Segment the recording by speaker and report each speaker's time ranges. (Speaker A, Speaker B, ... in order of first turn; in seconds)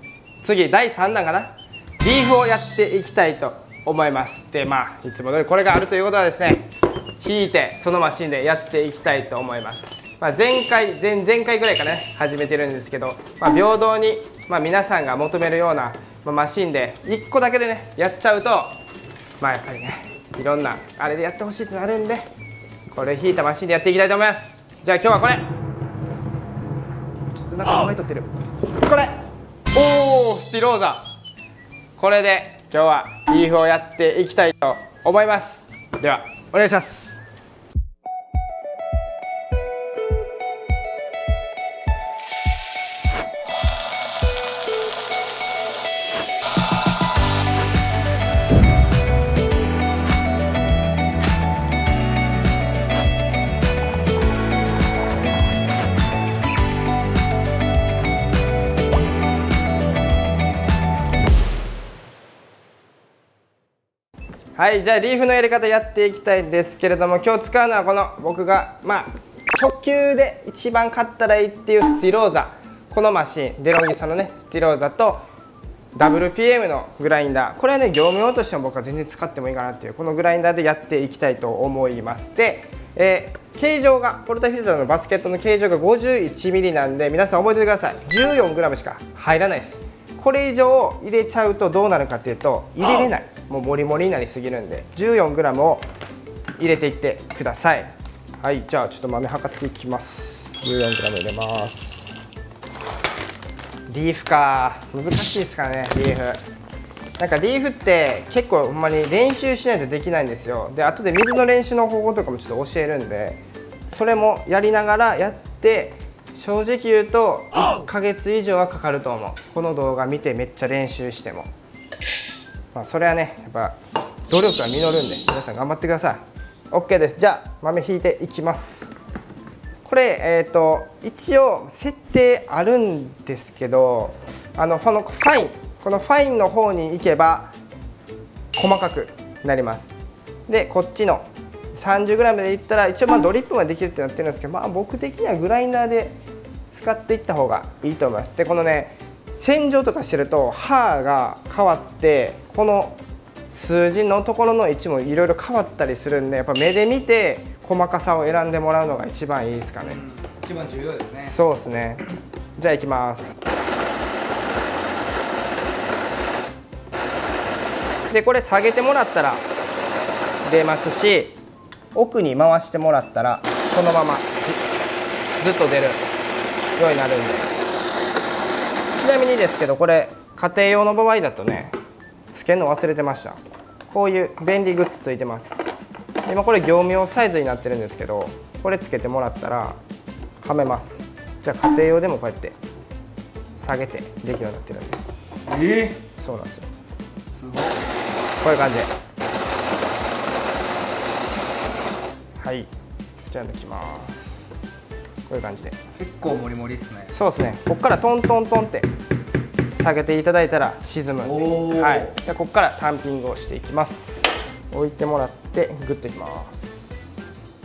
Speaker A: 0.4-6.7, 7.2-18.7, 19.4-22.2, 22.9-25.5, 27.3-29.2, 29.7-31.0, 32.0-37.2, 64.5-75.2, 76.0-95.8, 96.6-97.9, 98.4-102.1, 103.9-106.4, 107.2-113.4, 113.9-121.5, 122.7-123.7, 124.3-126.2, 126.7-128.9, 129.8-137.5, 138.5-139.9, 140.5-146.1, 146.7-153.0, 153.5-160.0, 161.2-162.0, 162.6-163.3, 168.1-169.4, 170.4-171.4, 171.9-174.6, 175.4-176.0, 176.8-177.5, 178.9-181.7, 182.3-183.4, 183.9-185.5, 186.2-189.8, 190.4-192.6, 193.6-195.0, 196.2-196.7, 198.4-198.9, 202.4-202.7, 203.3-204.4, 205.3-205.8, 207.1-208.9, 209.7-217.2
Speaker B: 159.8-161.4, 195.5-196.0, 197.3-197.9, 205.9-207.1, 211.2-212.1